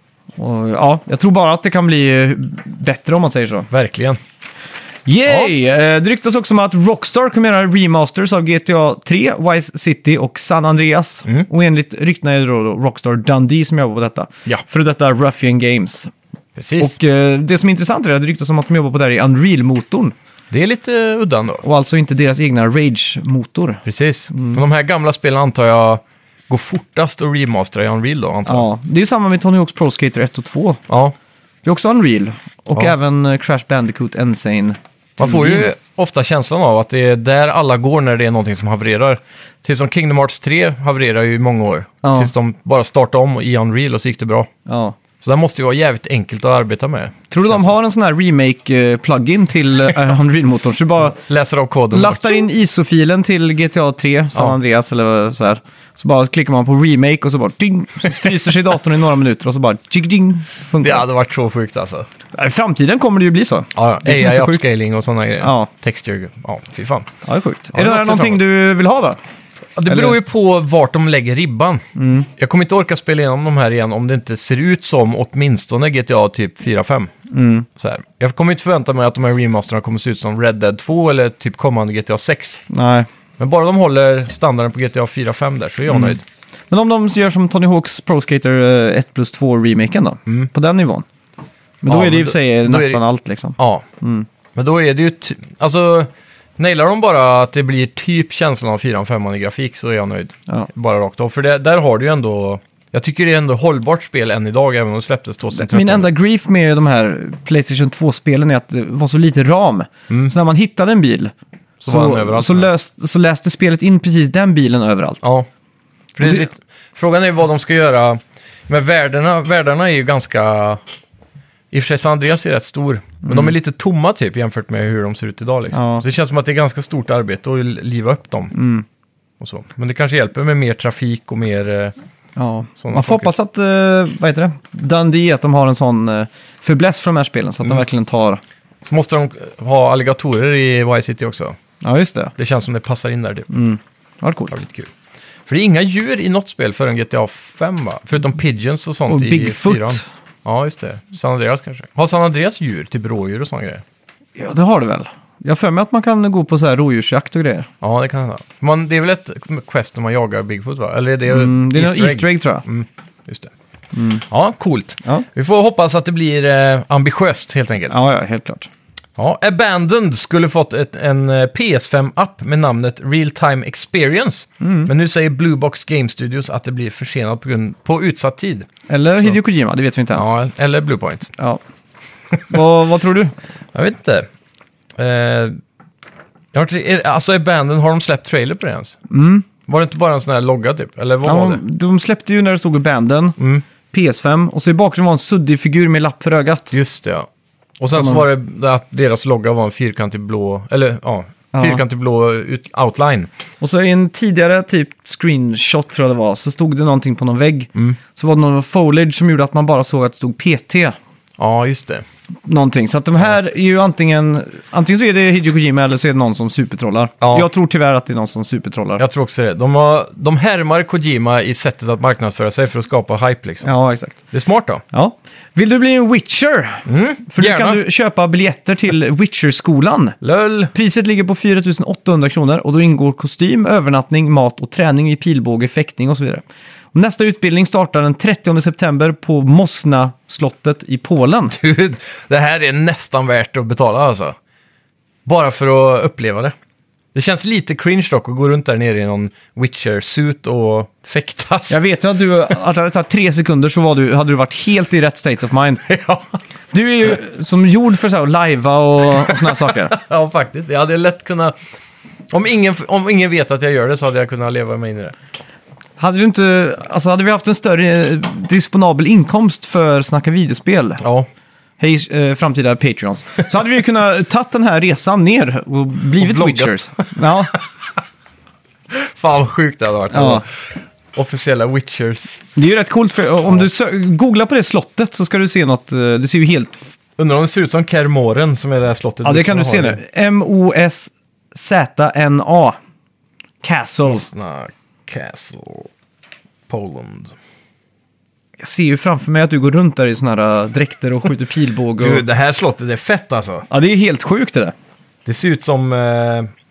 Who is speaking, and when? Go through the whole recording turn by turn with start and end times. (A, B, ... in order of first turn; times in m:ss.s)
0:00.4-0:03.7 A
0:03.7-0:04.2 B
0:05.1-0:16.1 A
0:16.6-0:17.0 B
0:16.8-0:20.1 A
0:20.5-0:21.6 B
0:21.6-0:24.6 A
0:23.8-0:28.7 B
0:28.5-0:30.8 A
0:30.9-0:31.1 B
0:31.6-0:35.7 A
0:35.2-0:44.5 B
0:42.0-0:42.3 A
0:44.7-0:45.0 A
0:45.2-0:47.6 B
0:47.3-0:51.2 A
0:51.2-0:52.2 B
0:51.9-1:01.0 A
1:00.8-1:02.1 B
1:02.3-1:04.6 A
1:03.8-1:07.1 B
1:05.4-1:05.7 A
1:07.2-1:09.2 A
1:07.7-1:08.4 B
1:09.8-1:11.8 B
1:09.9-1:10.2 A
1:12.0-1:12.3 A
1:12.4-1:17.1 B
1:17.3-1:17.7 A
1:17.8-1:22.6 B
1:22.7-1:23.1 A
1:23.4-1:26.2 B
1:25.9-1:26.2 A
1:26.7-1:31.0 A
1:31.8-1:34.3 A
1:31.9-1:33.0 B
1:33.6-1:33.9 B
1:34.6-1:46.1 B
1:45.5-1:51.3 A
1:51.8-1:52.7 B
1:51.9-1:55.2 A
1:55.2-1:55.5 B
1:56.2-2:00.8 B
2:01.7-2:08.5 B
2:03.2-2:03.5 A
2:05.7-2:06.0 A
2:08.5-2:08.8 A
2:09.4-2:11.9 B
2:12.4-2:18.4 A
2:12.8-2:13.3 B
2:18.9-2:21.6 B
2:21.8-2:22.3 A
2:22.4-2:23.5 B
2:23.5-2:24.6 A
2:24.5-2:24.9 B
2:25.5-2:33.8 B
2:29.1-2:30.1 A
2:34.4-2:37.7 A
2:37.8-2:43.5 B
2:41.3-2:42.6 A
2:43.9-2:44.2 A
2:44.3-2:48.0 B
2:47.9-2:48.7 A
2:49.2-2:58.7 B
2:54.6-2:54.9 A
2:58.9-3:00.2 A
3:00.1-3:01.3 B
3:02.5-3:03.3 A
3:03.7-3:04.3 B
3:05.0-3:05.6 B
3:06.5-3:09.0 B
3:09.1-3:09.5 A
3:09.7-3:11.6 B
3:11.2-3:13.4 A
3:13.4-3:13.6 B
3:13.9-3:16.7 A
3:16.7-3:17.3 B
3:17.8-3:23.3 B
3:17.9-3:18.2 A
3:21.5-3:21.8 A
3:23.6-3:31.0 A
3:31.4-3:32.0 B
3:32.5-3:39.0 A
3:37.2-3:37.5 B
3:39.0-3:43.7 B
3:43.6-3:44.2 A
3:44.3-3:44.8 B
3:44.9-3:50.2 A
3:46.9-3:47.8 B
3:50.2-3:50.7 B
3:50.7-3:56.4 A
3:56.9-4:01.6 A
4:01.5-4:04.4 B
4:05.2-4:06.5 B
4:07.1-4:11.8 B
4:11.7-4:15.8 A
4:15.9-4:16.3 B
4:16.7-4:20.0 A
4:19.2-4:21.6 B
4:22.3-4:25.1 B
4:26.0-4:31.0 A
4:31.0-4:31.3 B
4:31.8-4:37.6 A
4:36.2-4:37.6 B
4:38.9-4:42.4 B
4:40.1-4:40.4 A
4:42.6-4:46.8 A
4:47.2-4:50.0 B
4:49.2-4:52.8 A
4:53.6-4:54.3 A
4:54.0-4:55.9 B
4:56.7-4:57.4 B
4:58.6-5:02.2 A
5:02.0-5:03.7 B
5:03.7-5:04.7 A
5:05.2-5:06.5 B